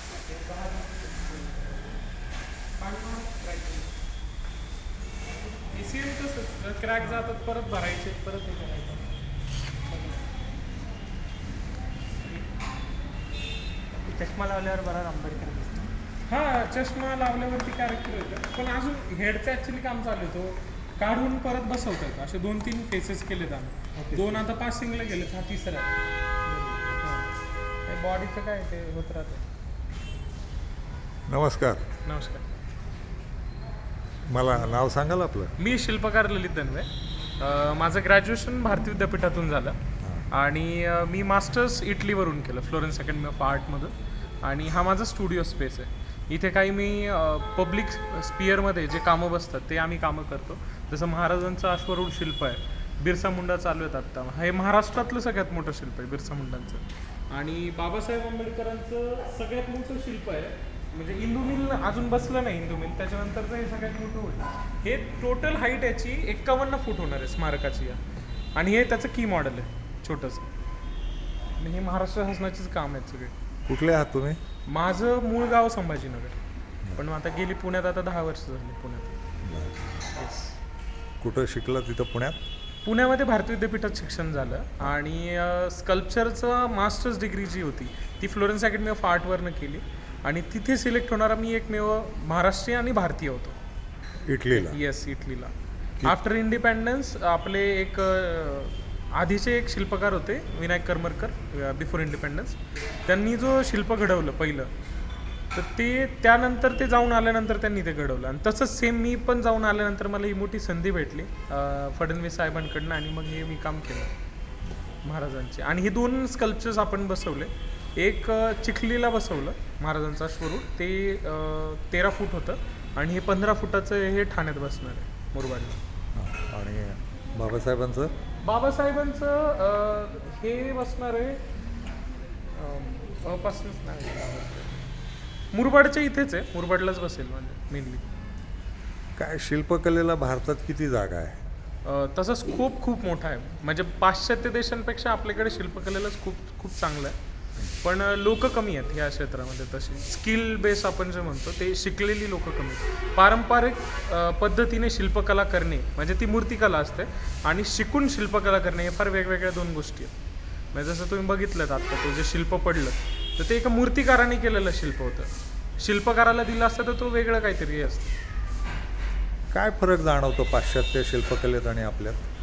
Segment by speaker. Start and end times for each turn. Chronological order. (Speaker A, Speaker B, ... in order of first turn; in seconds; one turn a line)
Speaker A: 0.2-1.8
Speaker B: 2.8-3.8
Speaker A: 3.5-3.7
Speaker B: 5.6-9.1
Speaker A: 14.0-15.9
Speaker B: 16.3-26.0
Speaker A: 24.0-24.4
Speaker A: 26.5-26.9
Speaker B: 26.9-27.3
Speaker B: 27.9-29.4
Speaker C: 31.3-31.9
Speaker B: 32.0-32.5
Speaker C: 34.3-35.5
Speaker B: 35.6-36.9
Speaker B: 37.4-39.8
Speaker C: 40.0-40.3
Speaker B: 40.3-68.0
Speaker B: 68.5-70.5
Speaker B: 71.6-73.3
Speaker C: 73.7-74.4
Speaker B: 74.7-76.4
Speaker B: 77.0-79.2
Speaker C: 79.4-80.1
Speaker B: 80.0-80.6
Speaker C: 81.2-82.4
Speaker B: 82.8-93.6
Speaker C: 94.2-94.8
Speaker B: 94.5-95.5
Speaker B: 96.0-104.7
Speaker B: 105.5-114.1
Speaker B: 115.0-125.8
Speaker C: 126.2-128.1
Speaker B: 128.4-131.4
Speaker B: 132.5-134.9
Speaker B: 135.5-138.0
Speaker C: 139.2-141.4
Speaker B: 141.8-147.2
Speaker B: 147.8-160.1
Speaker B: 160.7-168.1
Speaker C: 169.5-172.3